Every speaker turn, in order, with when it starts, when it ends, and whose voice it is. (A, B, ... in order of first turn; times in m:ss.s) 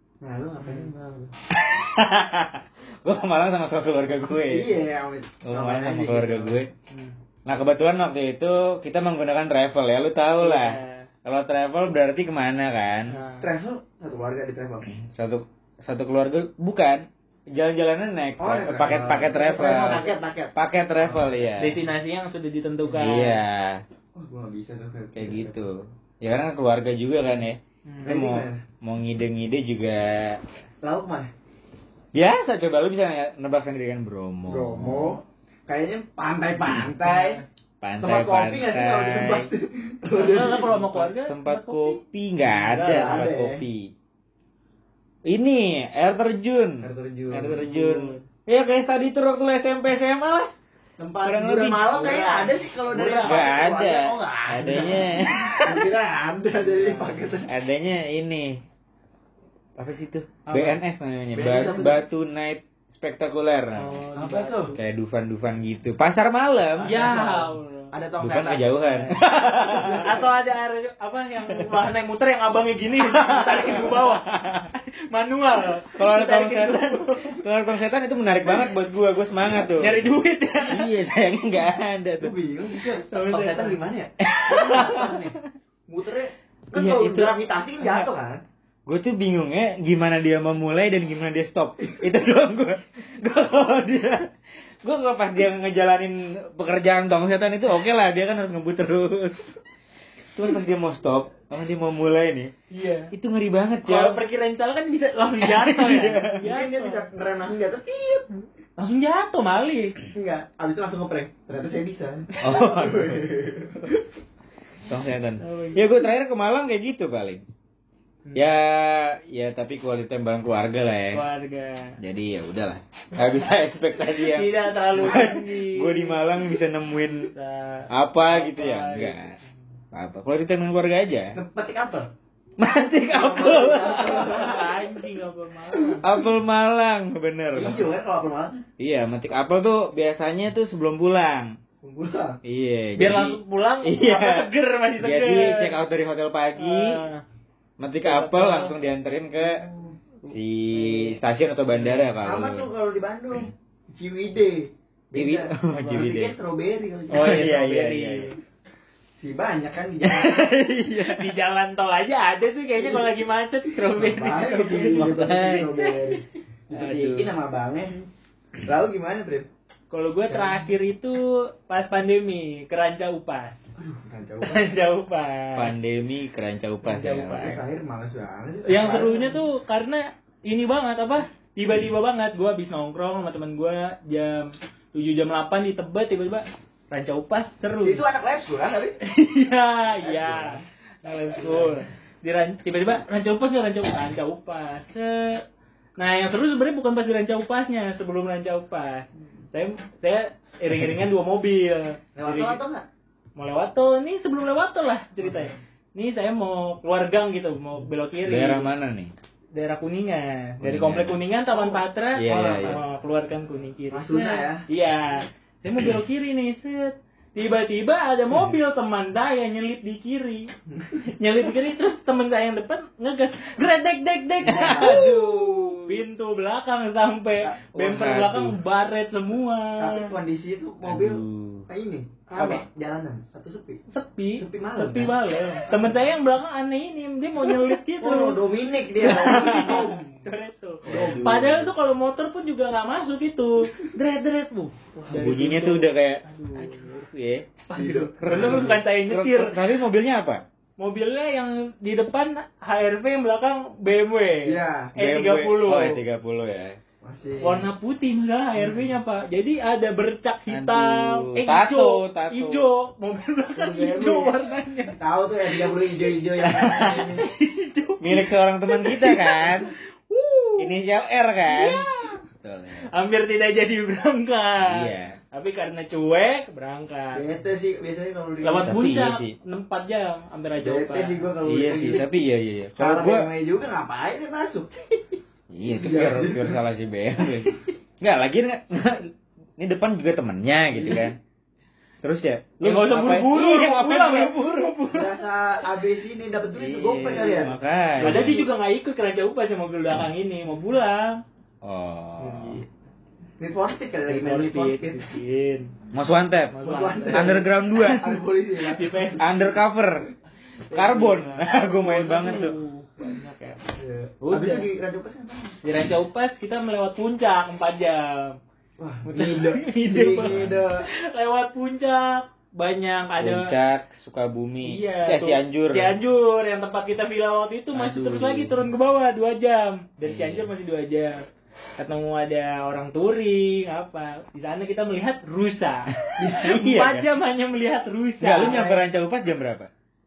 0:00.2-0:01.3 A
0:00.6-0:00.9 B
0:01.5-0:04.8 C
0:04.4-0:06.6 A
0:05.5-0:06.7 C
0:06.9-0:07.2 B
0:07.5-0:13.2 C
0:10.4-0:11.1 B
0:13.1-0:13.5 B
0:13.4-0:14.9 A
0:14.9-0:21.9 C
0:18.4-0:21.6 A
0:19.3-0:20.2 B
0:21.6-0:23.4 B
0:22.9-0:23.8 C
0:24.2-0:25.6 A
0:25.1-0:30.4 C
0:27.9-0:28.1 B
0:28.0-0:28.6 A
0:30.8-0:31.3 A
0:32.1-0:35.2 C
0:34.5-0:37.4 A
0:37.0-0:37.5 B
0:37.8-0:39.5 C
0:38.0-0:40.8 A
0:40.2-0:43.3 B
0:40.9-0:43.9 C
0:42.8-0:43.6 A
0:45.3-0:50.5 C
0:46.8-0:47.7 A
0:47.3-0:48.2 B
0:51.0-0:57.5 A
0:51.2-0:52.2 C
0:51.9-0:53.6 B
0:53.2-0:55.9 C
0:54.6-0:55.2 B
0:56.6-0:57.2 B
0:57.5-0:58.6 C
0:59.8-1:04.0 C
1:00.5-1:00.8 B
1:01.3-1:02.1 A
1:01.6-1:01.9 B
1:03.8-1:04.8 B
1:04.2-1:04.8 A
1:04.8-1:07.2 C
1:06.8-1:08.8 A
1:06.8-1:07.9 B
1:08.2-1:10.2 C
1:08.9-1:17.4 B
1:09.7-1:10.3 A
1:13.0-1:14.7 C
1:16.0-1:20.1 C
1:19.8-1:21.0 B
1:20.7-1:22.4 C
1:22.2-1:25.4 A
1:23.1-1:23.8 B
1:24.2-1:25.3 C
1:24.7-1:25.0 B
1:25.9-1:28.4 A
1:26.7-1:28.1 B
1:28.9-1:34.3 C
1:34.8-1:39.4 C
1:40.4-1:42.5 C
1:42.7-1:43.1 B
1:43.1-1:44.2 C
1:43.8-1:47.1 B
1:45.4-1:46.4 C
1:46.4-1:48.3 A
1:48.8-1:50.0 B
1:50.1-1:54.1 A
1:52.4-1:53.4 C
1:54.9-1:57.4 C
1:55.4-1:55.9 B
1:58.3-1:58.5 B
1:58.4-2:01.2 C
2:01.1-2:02.0 B
2:02.0-2:07.3 C
2:04.1-2:06.2 B
2:05.1-2:05.4 A
2:07.3-2:09.2 B
2:07.9-2:09.4 C
2:09.9-2:11.4 C
2:11.4-2:12.1 A
2:12.6-2:14.8 C
2:13.1-2:14.8 A
2:13.6-2:16.0 B
2:16.0-2:17.9 C
2:17.5-2:18.6 A
2:18.8-2:21.6 C
2:21.8-2:22.4 A
2:22.4-2:27.0 C
2:23.0-2:25.8 B
2:26.6-2:27.2 B
2:27.8-2:29.6 C
2:28.0-2:28.7 B
2:29.4-2:30.0 A
2:30.2-2:31.2 B
2:30.3-2:32.7 C
2:31.7-2:32.1 B
2:32.2-2:37.4 A
2:35.1-2:36.4 C
2:37.1-2:38.4 B
2:37.2-2:38.3 C
2:39.2-2:40.6 A
2:40.0-2:41.3 C
2:41.0-2:45.2 B
2:42.8-2:43.1 A
2:43.7-2:48.0 A
2:44.9-2:46.0 C
2:46.7-2:47.3 B
2:48.6-2:49.5 A
2:49.9-2:53.6 B
2:50.3-2:50.7 A
2:53.8-2:54.7 A
2:54.4-2:55.7 B
2:55.6-2:57.6 C
2:56.8-2:57.6 B
2:57.4-2:59.5 A
2:58.7-3:08.0 B
3:07.8-3:09.0 A
3:09.0-3:15.4 B
3:09.9-3:10.7 A
3:11.4-3:11.8 A
3:16.0-3:22.6 B
3:22.2-3:22.9 A
3:23.4-3:28.7 B
3:25.2-3:25.5 A
3:28.3-3:29.1 C
3:29.5-3:40.5 B
3:30.6-3:31.2 C
3:31.5-3:32.8 A
3:32.2-3:32.8 C
3:33.9-3:34.6 A
3:40.7-3:41.1 A
3:41.2-3:50.1 B
3:44.4-3:45.7 A
3:44.5-3:46.0 C
3:47.7-3:48.6 C
3:49.8-3:53.8 A
3:50.8-3:51.7 C
3:52.4-3:52.6 B
3:53.9-3:58.4 B
3:54.4-3:55.2 A
3:58.0-4:00.1 A
3:59.0-4:06.9 B
3:59.2-3:59.8 C
4:00.8-4:01.6 A
4:00.8-4:01.7 C
4:05.1-4:07.5 C
4:07.7-4:09.7 B
4:07.8-4:08.8 A
4:08.2-4:10.4 C
4:10.8-4:16.0 B
4:14.4-4:14.9 A
4:15.0-4:16.8 C
4:17.0-4:17.7 A
4:17.4-4:30.8 B
4:18.6-4:19.0 C
4:20.5-4:22.7 C
4:23.5-4:24.4 A
4:25.0-4:27.3 A
4:26.6-4:27.1 C
4:28.0-4:29.7 C
4:30.6-4:31.8 C
4:31.4-4:32.2 B
4:32.4-4:32.9 C
4:32.9-4:37.2 B
4:34.6-4:35.2 C
4:37.1-4:38.8 A
4:38.4-4:41.3 B
4:38.6-4:39.3 C
4:40.6-4:42.1 A
4:41.4-4:43.3 C
4:42.8-4:44.7 A
4:45.5-4:51.2 C
4:45.8-4:46.6 A
4:50.8-4:51.1 A
4:52.0-4:54.4 C
4:52.6-4:55.1 B
4:54.9-4:58.5 A
4:56.5-4:57.5 B
4:57.3-4:58.5 C
4:58.0-5:01.2 B
5:01.6-5:02.6 C
5:02.2-5:02.7 B
5:03.4-5:05.1 A
5:04.1-5:05.7 B
5:05.9-5:08.2 C
5:06.5-5:07.4 B
5:06.6-5:09.6 A
5:08.6-5:09.3 B
5:09.2-5:10.0 C
5:10.7-5:12.6 C
5:10.7-5:11.3 A
5:10.8-5:13.6 B
5:13.8-5:15.6 A
5:14.2-5:14.7 B
5:15.6-5:18.4 B
5:18.8-5:20.9 A
5:19.1-5:23.5 B
5:20.2-5:20.7 C
5:23.2-5:26.0 C
5:24.6-5:31.2 B
5:27.7-5:28.7 C
5:30.0-5:30.5 C
5:31.8-5:38.8 B
5:36.0-5:37.1 C
5:36.2-5:36.6 A
5:38.2-5:39.7 C